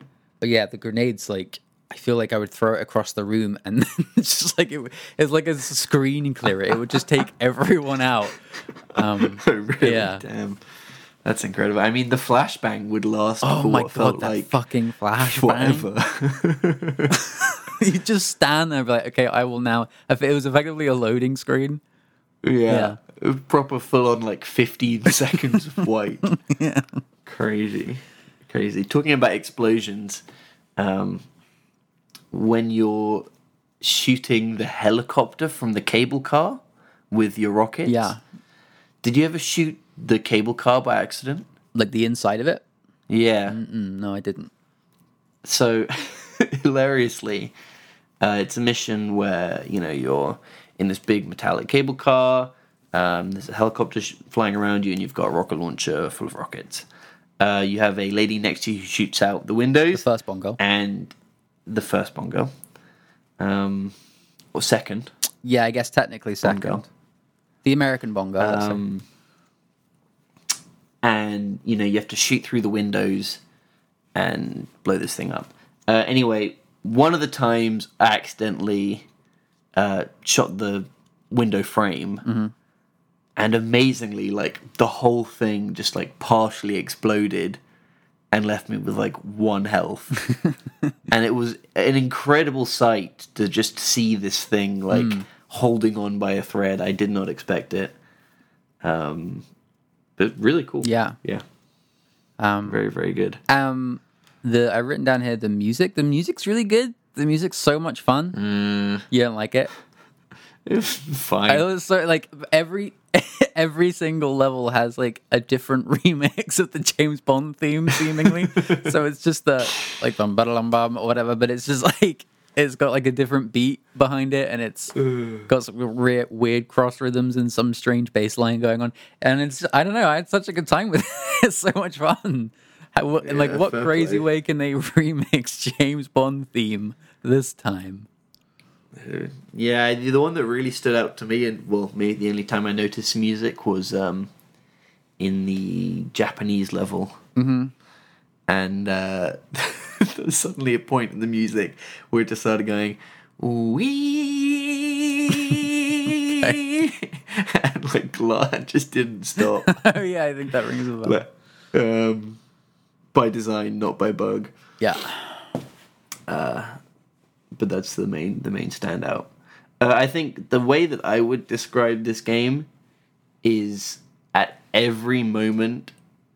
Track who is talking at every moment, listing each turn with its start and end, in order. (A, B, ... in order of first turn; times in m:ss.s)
0:00.4-0:08.4 A
0:08.9-0:10.6 B
0:08.9-0:10.2 A
0:11.2-0:14.5 B
0:13.4-0:15.9 A
0:15.2-0:17.2 B
0:17.1-0:21.8 A
0:22.4-0:26.3 B
0:22.7-0:23.0 A
0:26.2-0:27.0 A
0:27.2-0:30.2 B
0:30.8-0:31.2 B
0:32.3-0:33.3 B
0:33.8-0:38.1 B
0:37.8-0:38.2 A
0:39.0-0:41.5 B
0:41.7-0:42.6 A
0:43.1-0:43.6 B
0:43.5-0:44.5 A
0:45.4-0:47.5 B
0:48.2-0:56.8 B
0:57.4-1:00.0 B
0:59.9-1:00.6 A
1:00.6-1:01.1 B
1:01.7-1:02.5 B
1:03.4-1:03.9 B
1:04.5-1:05.1 B
1:05.4-1:06.9 A
1:06.4-1:06.8 B
1:07.6-1:08.8 A
1:08.4-1:09.0 B
1:11.0-1:13.4 B
1:14.1-1:19.0 B
1:19.8-1:22.2 B
1:22.2-1:22.5 A
1:23.4-1:27.6 B
1:28.3-1:30.2 B
1:30.3-1:30.9 A
1:31.1-1:37.9 B
1:34.9-1:35.3 A
1:38.8-1:39.4 B
1:40.2-1:41.4 B
1:40.8-1:41.2 A
1:42.4-1:42.8 A
1:42.6-1:43.4 B
1:43.5-1:48.4 A
1:48.3-1:49.0 B
1:49.1-1:49.7 A
1:50.6-1:51.7 B
1:51.5-2:18.1 A
1:58.0-1:58.9 B
2:05.0-2:05.5 B
2:13.2-2:14.2 B
2:18.9-2:24.3 B
2:25.2-2:27.2 B
2:27.4-2:27.7 A
2:28.5-2:39.8 B
2:39.4-2:41.2 A
2:41.0-2:42.4 B
2:43.1-2:44.5 B
2:44.8-2:45.4 A
2:46.3-2:46.8 B
2:47.5-2:52.7 B
2:53.4-2:55.9 B